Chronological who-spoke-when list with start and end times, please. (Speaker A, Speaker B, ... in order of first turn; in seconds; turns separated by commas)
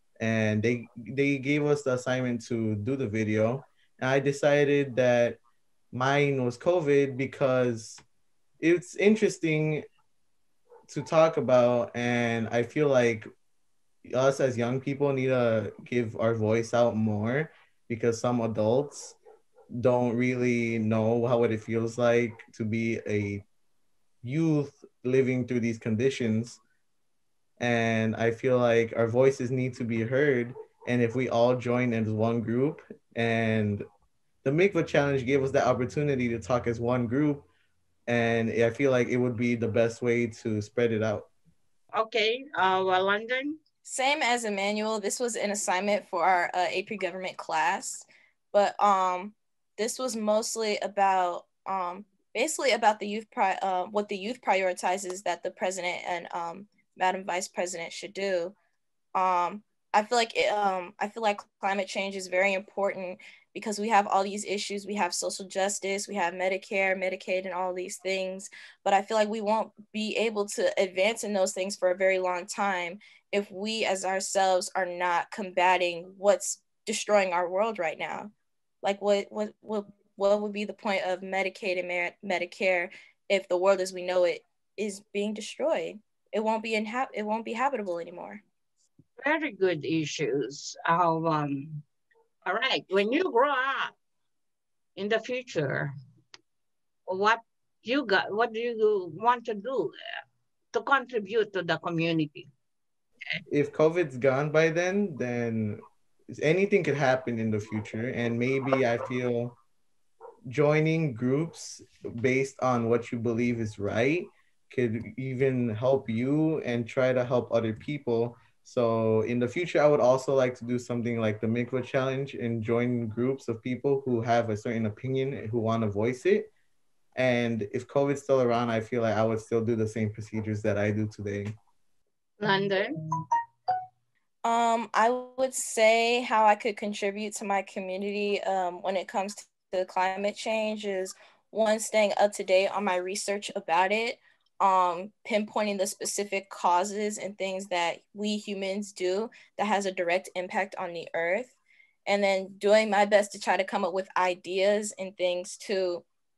Speaker A: 0.2-5.4, Speaker A: 5.9-8.0, Speaker A: 8.6-9.8, Speaker A: 10.9-13.3, Speaker A: 14.1-19.2, Speaker A: 19.7-23.4, Speaker A: 24.2-26.6, Speaker A: 27.6-33.9, Speaker A: 34.4-37.5, Speaker A: 38.1-41.3, Speaker B: 42.0-43.6, Speaker C: 43.9-58.5, Speaker C: 59.1-78.3, Speaker C: 78.8-88.4, Speaker B: 89.2-91.8, Speaker B: 92.5-93.9, Speaker B: 95.0-95.9, Speaker B: 97.1-99.9, Speaker B: 100.7-102.5, Speaker A: 103.5-109.6, Speaker A: 110.5-126.5, Speaker A: 127.2-131.6, Speaker B: 132.4-132.9, Speaker C: 134.4-151.6, Speaker C: 152.1-156.0